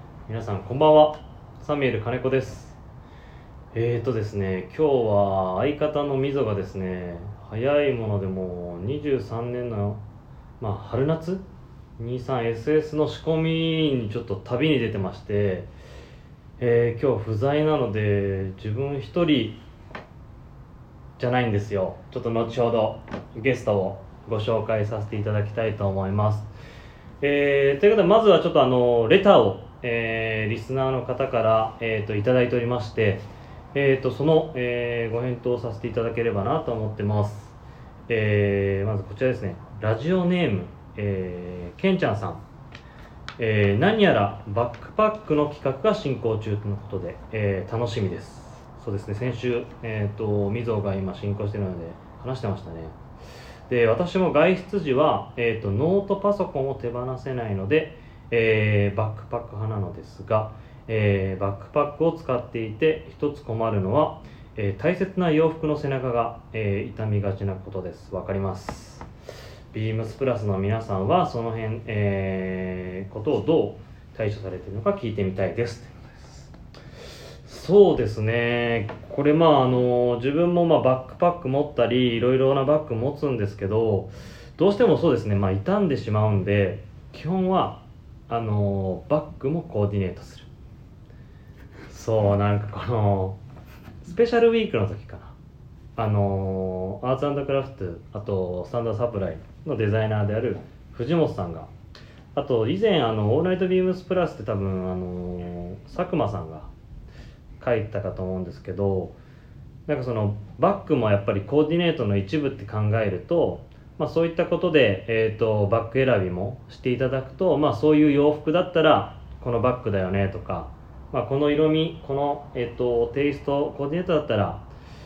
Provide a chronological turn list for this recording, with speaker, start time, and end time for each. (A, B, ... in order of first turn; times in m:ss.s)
0:00.3-0:02.8 A
0:03.7-0:10.0 A
0:10.6-0:11.4 A
0:12.0-0:15.7 A
0:16.6-0:19.6 A
0:21.2-0:26.5 A
0:27.2-0:37.5 A
0:38.1-0:42.4 A
0:43.4-0:53.0 A
0:53.7-1:09.1 A
1:09.7-1:16.4 A
1:17.4-1:30.5 A
1:31.9-1:33.4 A
1:34.0-1:35.3 A
1:36.0-1:41.7 A
1:42.3-1:46.7 A
1:47.6-1:49.2 A
1:49.9-2:04.6 A